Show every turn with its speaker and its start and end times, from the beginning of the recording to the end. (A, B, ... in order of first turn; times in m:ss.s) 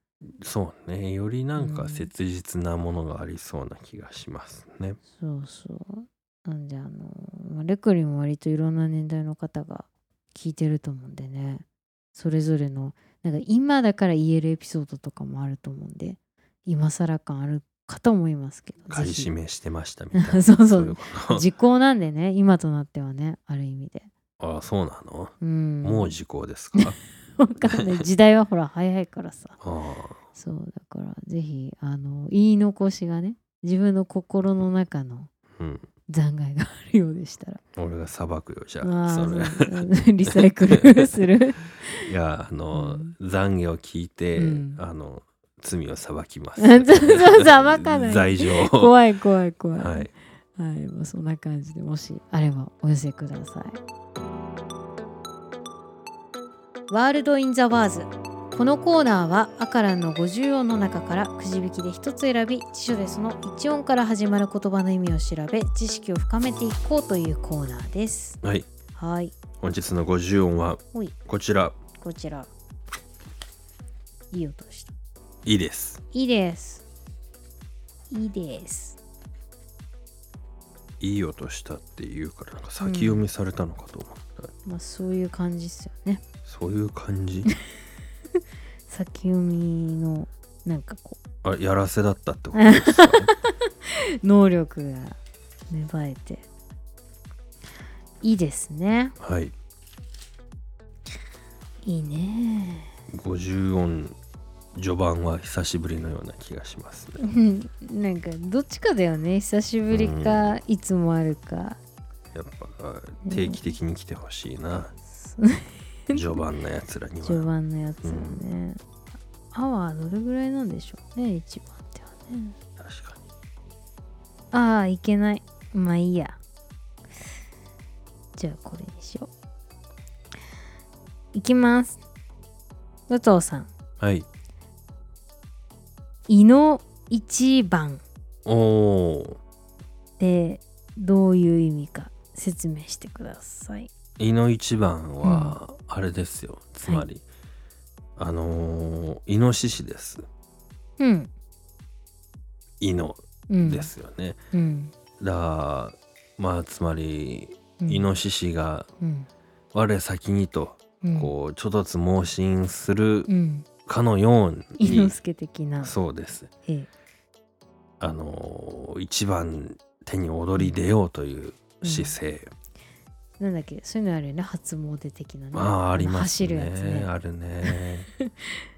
0:00.2-0:05.0 A
0:01.6-0:02.1 B
0:05.1-0:19.3 B
0:18.9-0:21.4 A
0:20.1-0:24.1 B
0:24.4-0:27.0 A
0:25.4-0:26.1 B
0:26.8-0:29.6 B
0:27.7-0:28.1 A
0:29.6-0:30.2 A
0:30.3-0:35.3 B
0:35.6-0:35.8 A
0:36.1-0:37.6 B
0:37.8-0:39.8 A
0:38.8-0:42.1 B
0:40.7-0:41.0 A
0:42.0-0:48.9 A
0:42.7-0:43.1 B
0:44.4-0:44.8 B
0:46.6-0:53.8 B
0:49.8-0:50.1 A
0:56.9-1:08.4 B
1:08.4-1:08.7 A
1:08.9-1:09.3 B
1:09.6-1:11.7 A
1:12.0-1:12.5 B
1:14.3-1:14.9 B
1:15.4-1:16.0 A
1:16.1-1:16.8 B
1:18.1-1:19.0 B
1:21.0-1:24.5 A
1:22.8-1:23.2 B
1:24.6-1:26.2 B
1:26.4-1:27.5 A
1:28.9-1:31.2 B
1:31.4-1:33.3 A
1:32.5-1:35.2 B
1:35.7-1:36.4 B
1:38.2-1:39.2 B
1:39.2-1:39.5 A
1:41.8-1:42.9 B
1:43.1-1:44.2 A
1:44.7-1:47.2 A
1:47.2-1:51.8 B
1:49.9-1:50.6 A
1:52.3-1:54.9 A
1:53.2-1:53.6 B
1:55.0-1:56.4 B
1:56.1-1:57.4 A
1:57.2-1:58.8 B
1:58.0-1:58.4 A
1:59.5-2:02.5 B
2:02.8-2:03.2 A
2:04.5-2:06.4 B
2:08.4-2:09.3 B
2:11.3-2:12.0 B
2:13.1-2:13.7 B
2:14.0-2:14.3 A
2:16.3-2:18.0 B
2:18.4-2:19.4 A
2:20.2-2:23.9 B
2:24.2-2:27.2 A
2:25.2-2:25.6 B
2:28.2-2:30.2 A
2:31.0-2:31.3 B
2:32.8-2:34.4 A
2:33.5-2:33.9 B
2:34.5-2:34.9 B
2:35.2-2:38.9 A
2:37.8-2:38.1 B
2:39.0-2:39.3 B
2:39.7-2:43.3 A
2:41.0-2:41.3 B
2:43.3-2:43.6 B
2:43.8-2:45.1 A
2:44.8-2:45.9 B
2:45.8-2:46.5 A
2:48.0-2:52.5 A
2:51.8-2:52.2 B
2:53.4-2:57.1 B
2:55.5-2:58.1 A
2:57.7-2:58.5 B